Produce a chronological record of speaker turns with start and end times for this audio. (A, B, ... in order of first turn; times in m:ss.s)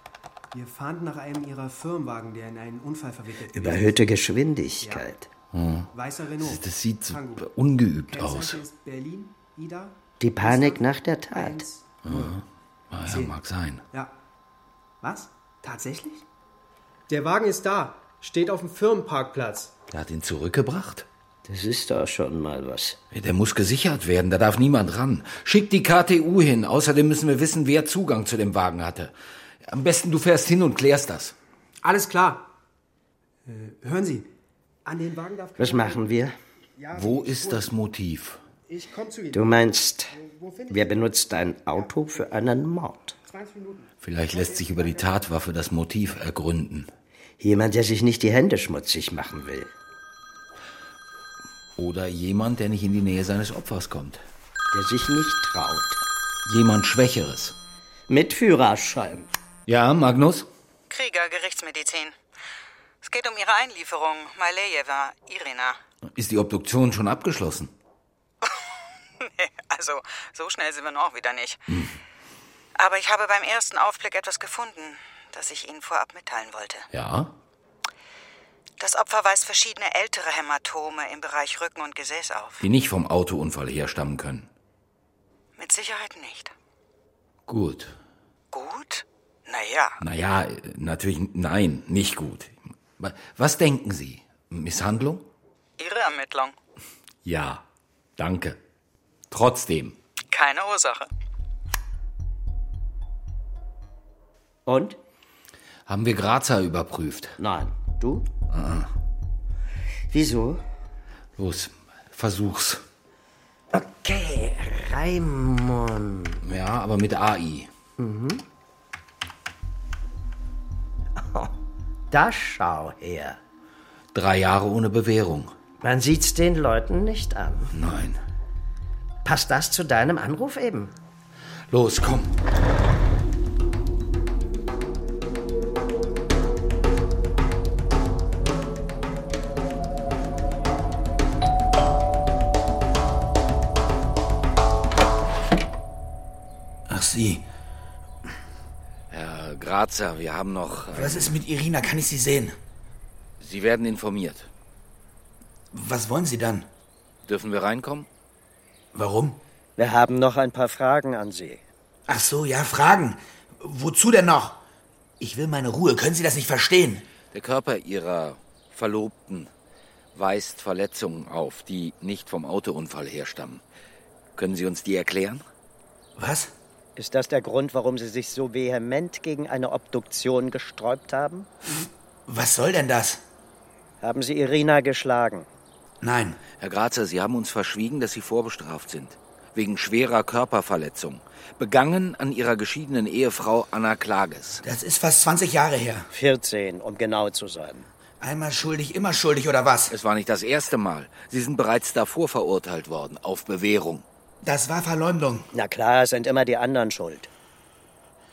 0:00.5-0:04.0 A
0:03.5-0:05.3 B
0:04.8-0:05.1 A
0:05.5-0:08.6 C
0:05.9-0:07.5 A
0:08.1-0:12.3 A
0:10.2-0:11.7 B
0:12.0-0:13.8 C
0:13.0-0:13.3 A
0:15.0-0:16.2 A
0:17.1-0:19.7 A
0:19.9-0:21.1 C
0:21.4-0:23.0 B
0:23.1-0:29.1 C
0:29.6-0:31.3 C
0:31.8-0:32.5 A
0:33.4-0:34.3 A
0:34.8-0:36.0 A
0:35.6-0:36.4 B
0:36.8-0:37.7 A
0:36.9-0:38.4 C
0:38.7-0:41.1 A
0:39.3-0:40.2 B
0:40.7-0:43.2 B
0:43.2-0:45.1 A
0:44.0-0:46.9 C
0:47.4-0:49.7 B
0:51.8-0:54.2 C
0:54.7-0:56.0 B
0:56.4-0:57.6 C
0:58.1-0:59.3 B
0:59.7-1:00.5 C
1:00.9-1:02.1 D
1:03.0-1:05.8 D
1:06.2-1:07.7 C
1:09.2-1:11.6 D
1:12.8-1:16.9 D
1:16.9-1:17.3 C
1:18.8-1:22.6 D
1:22.6-1:24.5 C
1:25.6-1:26.5 D
1:27.5-1:27.9 C
1:28.5-1:30.0 D
1:30.0-1:35.2 C
1:35.8-1:36.5 D
1:37.2-1:37.6 C
1:38.2-1:38.6 C
1:39.3-1:40.0 C
1:40.3-1:41.1 D
1:44.6-1:45.0 B
1:45.9-1:47.4 C
1:47.4-1:48.3 B
1:48.5-1:48.9 C
1:50.1-1:50.6 B
1:51.4-1:52.8 C
1:53.7-1:56.4 B
1:56.4-1:57.7 C
1:58.0-1:58.4 B
2:01.2-2:01.5 B
2:02.1-2:03.4 B
2:04.1-2:05.5 C
2:05.8-2:07.7 B
2:07.7-2:08.2 C
2:09.2-2:10.9 B
2:11.7-2:12.3 C
2:26.9-2:27.4 E
2:29.1-2:31.4 C
2:30.9-2:32.6 E
2:33.4-2:34.5 C
2:35.7-2:36.6 E
2:37.2-2:38.1 C
2:38.9-2:39.4 E
2:39.8-2:41.6 B
2:42.1-2:44.6 E
2:45.2-2:47.0 E
2:47.3-2:49.5 C
2:50.1-2:53.6 C
2:54.4-2:55.4 C
2:56.2-2:56.5 E
2:57.0-3:01.5 B
3:02.3-3:03.2 E
3:04.0-3:05.5 B
3:06.0-3:06.4 E
3:06.6-3:14.6 C
3:14.6-3:16.1 E
3:16.1-3:17.9 B
3:18.2-3:19.9 E
3:19.9-3:24.0 C
3:24.4-3:25.5 E
3:25.5-3:27.3 B